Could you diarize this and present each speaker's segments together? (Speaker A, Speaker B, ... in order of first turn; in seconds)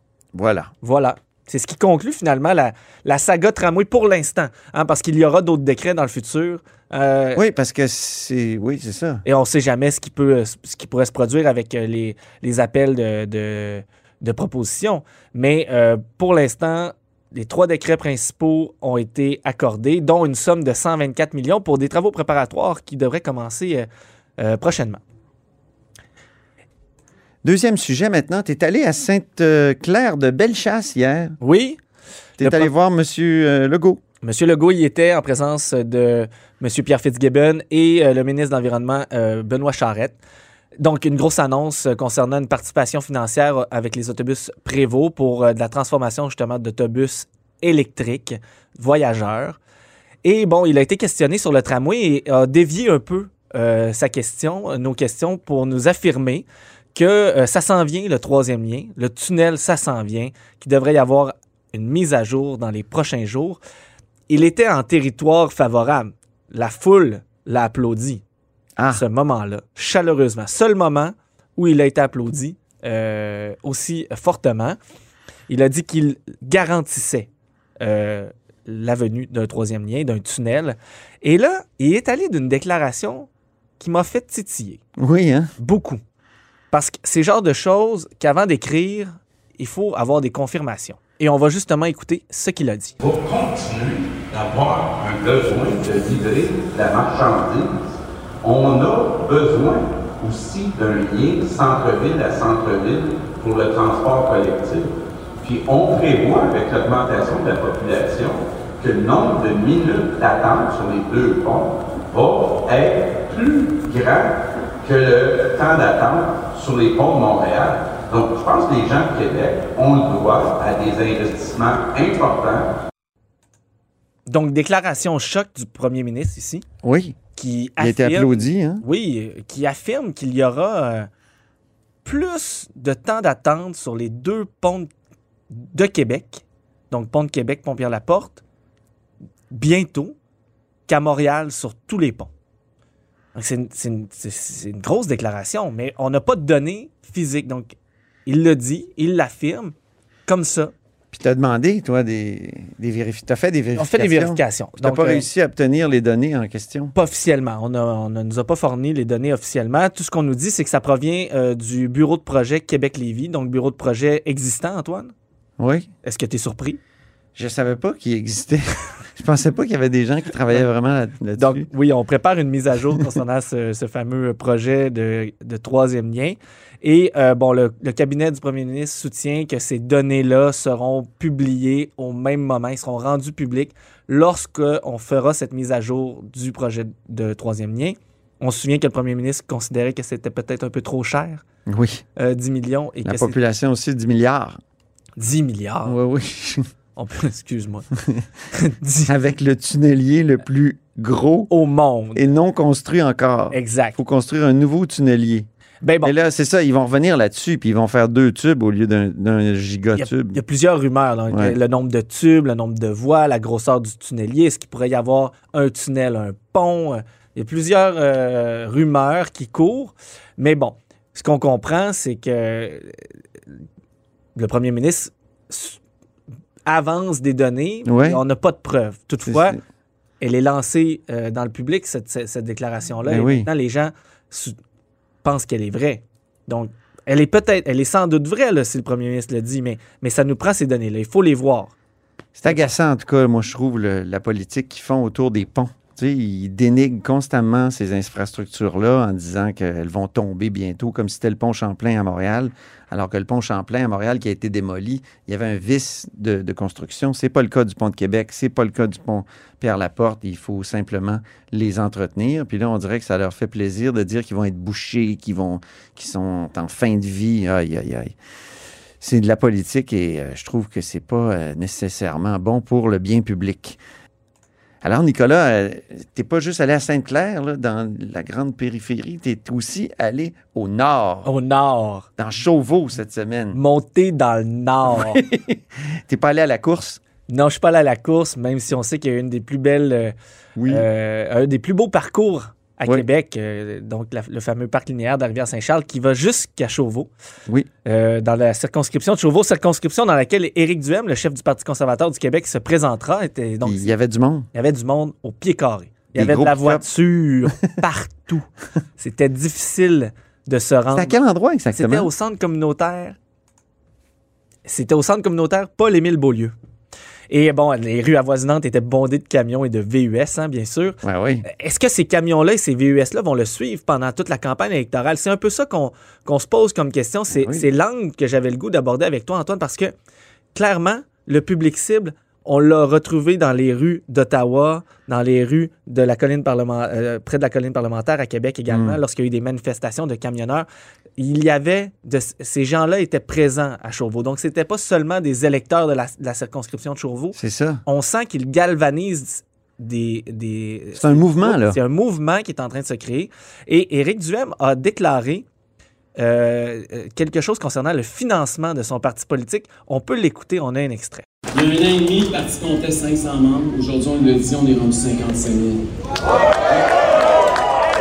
Speaker A: 0.3-0.7, 7.4-9.2, 27.4-31.4, 32.4-34.0, 68.8-69.0, 85.0-85.5, 126.8-127.2, 127.8-128.8, 151.1-156.9, 165.6-165.9, 167.4-168.6, 169.2-171.7, 191.7-192.0, 193.0-194.6, 195.8-196.6, 199.1-201.5, 202.2-205.5, 206.0-210.4, 211.3-211.6, 227.8-228.2, 229.3-229.6, 233.1-233.5, 242.4-268.1, 269.0-273.8, 274.8-281.3, 282.2-283.6, 284.9-287.0, 290.6-290.9, 303.6-304.5, 306.1-306.9, 310.9-312.1, 321.0-321.5, 327.3-327.6, 338.7-339.0, 347.3-347.8, 350.9-351.8
Speaker B: 0.8-7.4, 9.2-25.0, 31.4-31.8, 32.4-32.7, 34.2-40.2, 40.8-49.6, 50.2-63.6, 64.3-68.2, 68.9-74.8, 75.5-77.3, 77.8-84.8, 85.6-86.0, 86.7-93.0, 124.3-126.7, 127.4-131.1, 132.0-134.9, 135.5-138.4, 139.5-140.2, 140.9-142.3, 143.3-147.8, 148.3-149.7, 150.3-150.7, 153.8-155.3, 156.9-165.1, 166.0-166.8, 171.4-191.4, 192.2-193.4, 195.2-196.0, 197.0-197.9, 198.5-199.1, 201.5-202.2, 203.5-204.0, 205.8-206.1, 210.0-223.0, 224.4-225.8, 226.7-229.6, 230.2-234.6, 235.2-241.7, 281.3-282.1, 283.5-285.2, 287.3-290.1, 290.7-297.1, 297.9-303.9, 304.5-308.5, 309.0-311.2, 311.8-313.2, 314.7-316.5, 317.3-329.9, 330.5-340.7, 341.2-355.5, 356.2-361.2
Speaker C: 93.0-122.7
Speaker D: 361.5-365.8